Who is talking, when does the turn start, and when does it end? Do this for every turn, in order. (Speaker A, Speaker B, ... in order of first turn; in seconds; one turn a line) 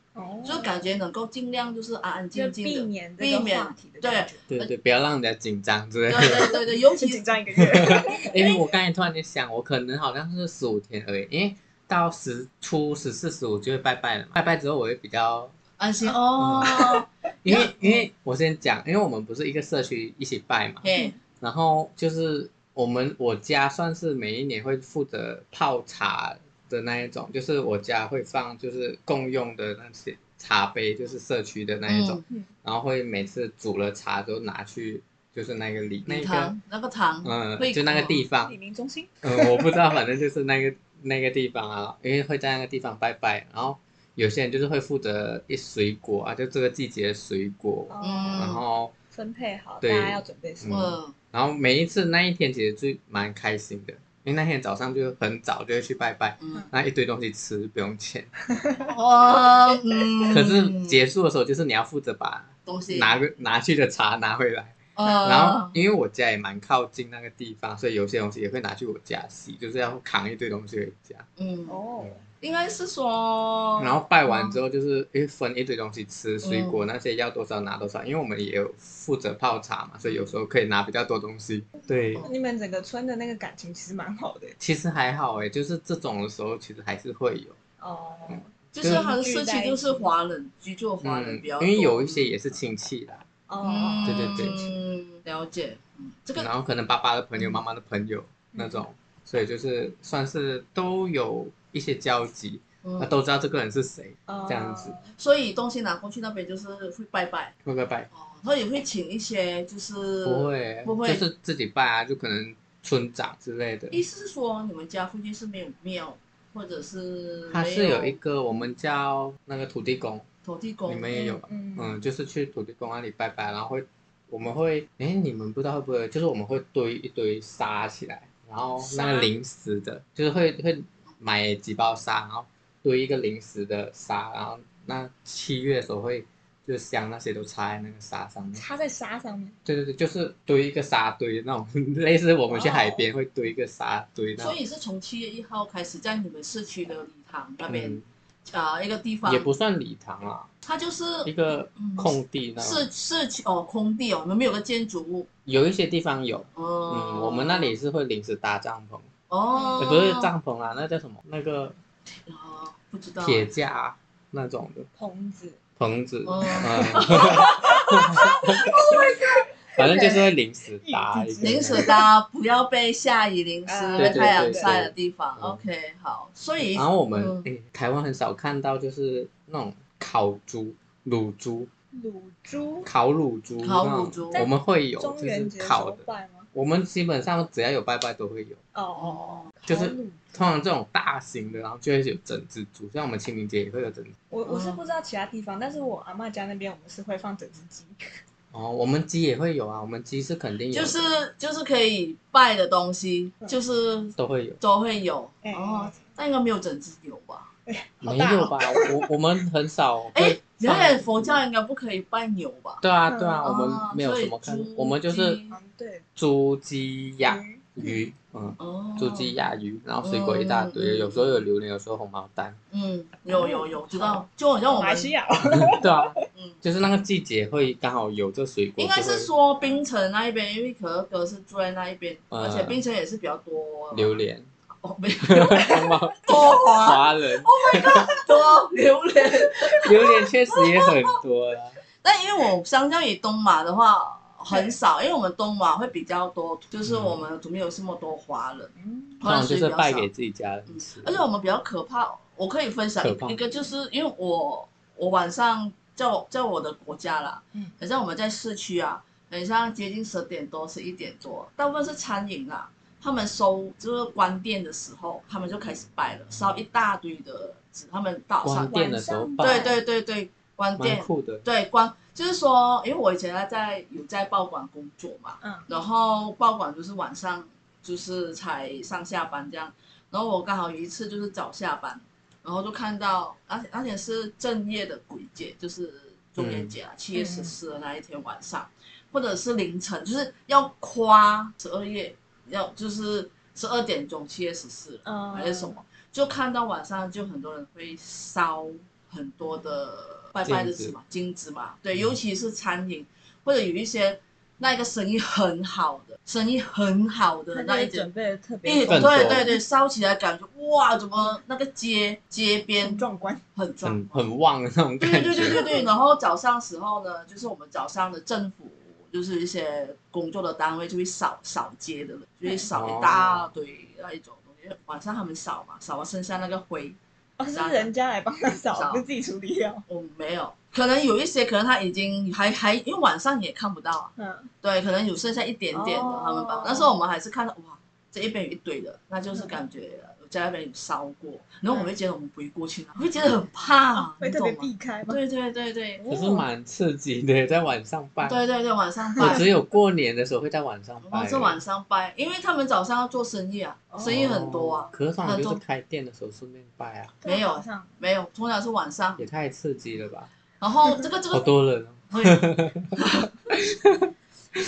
Speaker A: 0.1-0.7
Speaker B: 0.4-4.7
Speaker A: 2.3-4.5
Speaker C: 4.5-6.6
Speaker B: 6.1-7.2
Speaker A: 6.2-8.7
Speaker C: 7.5-15.5
Speaker B: 15.8-18.1
Speaker A: 16.0-16.9
Speaker C: 16.4-16.9
Speaker C: 17.4-36.5
Speaker B: 20.8-21.1
Speaker B: 31.9-32.2
Speaker B: 36.0-38.2
Speaker C: 37.2-38.5
Speaker A: 38.4-39.9
Speaker C: 39.2-48.9
Speaker A: 47.9-48.5
Speaker B: 48.0-48.6
Speaker A: 49.1-50.7
Speaker C: 49.8-58.3
Speaker B: 50.7-51.1
Speaker B: 56.4-56.7
Speaker A: 58.5-58.9
Speaker B: 58.8-61.0
Speaker A: 59.7-60.4
Speaker C: 60.3-71.2
Speaker B: 62.6-63.1
Speaker B: 65.0-65.7
Speaker B: 71.4-71.8
Speaker A: 71.7-72.2
Speaker B: 72.4-74.6
Speaker C: 73.8-82.2
Speaker B: 76.4-76.8
Speaker A: 82.2-84.5
Speaker C: 84.6-87.6
Speaker A: 87.8-90.1
Speaker C: 88.3-89.1
Speaker B: 88.7-92.3
Speaker C: 91.0-93.2
Speaker A: 93.5-94.5
Speaker B: 93.6-96.5
Speaker C: 94.0-94.7
Speaker C: 96.4-105.0
Speaker A: 98.5-98.8
Speaker B: 102.8-103.2
Speaker A: 104.3-105.1
Speaker B: 105.2-107.5
Speaker C: 107.6-108.1
Speaker B: 108.1-111.2
Speaker C: 110.2-114.0
Speaker B: 113.9-118.2
Speaker C: 117.5-120.2
Speaker B: 120.4-121.1
Speaker C: 120.8-138.6
Speaker A: 121.1-122.0
Speaker A: 128.8-129.3
Speaker A: 138.6-139.6
Speaker C: 139.7-144.6
Speaker A: 142.5-143.0
Speaker B: 144.4-149.5
Speaker C: 147.7-148.0
Speaker C: 149.2-150.5
Speaker B: 150.6-155.3
Speaker C: 151.2-152.8
Speaker C: 155.4-159.1
Speaker B: 156.5-157.7
Speaker B: 159.3-160.3
Speaker A: 159.5-159.9
Speaker C: 159.8-161.8
Speaker B: 162.3-163.5
Speaker C: 163.2-164.9
Speaker A: 164.9-165.6
Speaker C: 165.8-169.0
Speaker B: 166.2-170.2
Speaker A: 166.5-167.4
Speaker C: 169.8-171.9
Speaker A: 169.8-170.2
Speaker A: 170.8-172.0
Speaker B: 171.4-177.5
Speaker A: 173.7-174.7
Speaker C: 174.0-175.6
Speaker C: 176.7-181.7
Speaker A: 181.9-182.9
Speaker C: 182.8-186.0
Speaker B: 183.6-184.4
Speaker A: 184.3-186.5
Speaker C: 186.5-188.6
Speaker A: 188.7-190.3
Speaker B: 189.0-189.5
Speaker C: 189.7-194.1
Speaker A: 194.3-198.2
Speaker B: 194.4-194.8
Speaker C: 198.5-201.1
Speaker B: 200.7-207.5
Speaker C: 204.2-204.6
Speaker A: 205.4-206.0
Speaker A: 207.7-209.1
Speaker C: 208.0-211.4
Speaker B: 210.1-212.8
Speaker C: 212.8-215.4
Speaker A: 213.1-213.4
Speaker B: 213.4-215.6
Speaker A: 215.5-216.0
Speaker C: 216.2-222.6
Speaker A: 217.2-218.0
Speaker B: 218.6-219.3
Speaker B: 220.0-221.3
Speaker B: 222.7-225.1
Speaker A: 223.3-226.2
Speaker C: 225.6-229.3
Speaker B: 228.8-234.2
Speaker C: 232.3-232.8
Speaker C: 233.9-234.5
Speaker B: 234.8-241.0
Speaker C: 235.2-238.1
Speaker C: 239.8-241.8
Speaker B: 242.0-250.1
Speaker C: 246.8-247.2
Speaker A: 248.8-249.2
Speaker C: 249.2-251.2
Speaker B: 250.7-268.8
Speaker C: 253.0-253.4
Speaker C: 268.4-269.8
Speaker A: 268.6-269.8
Speaker B: 269.4-308.1
Speaker C: 270.8-271.4
Speaker A: 275.4-275.7
Speaker C: 286.4-286.7
Speaker A: 287.1-287.6
Speaker A: 295.0-295.8
Speaker C: 300.4-300.9
Speaker A: 307.5-309.6
Speaker B: 308.6-314.2
Speaker C: 308.9-309.5
Speaker A: 312.8-313.4
Speaker C: 313.8-315.7
Speaker B: 315.0-327.0
Speaker A: 315.5-315.8
Speaker C: 322.7-323.5
Speaker A: 327.4-329.8
Speaker B: 327.5-327.9
Speaker B: 328.7-329.0
Speaker B: 329.9-346.0
Speaker A: 334.2-334.5
Speaker A: 335.7-336.9
Speaker A: 343.9-345.2
Speaker A: 346.0-346.5
Speaker C: 346.1-348.4
Speaker B: 348.2-349.4
Speaker C: 349.2-351.6
Speaker B: 351.0-355.6
Speaker A: 353.9-354.2
Speaker C: 354.0-357.1
Speaker A: 357.2-357.9
Speaker B: 357.2-359.2
Speaker C: 359.2-360.3
Speaker B: 360.6-361.5
Speaker C: 361.3-363.0
Speaker B: 362.1-362.4
Speaker B: 362.9-363.3
Speaker C: 363.5-364.1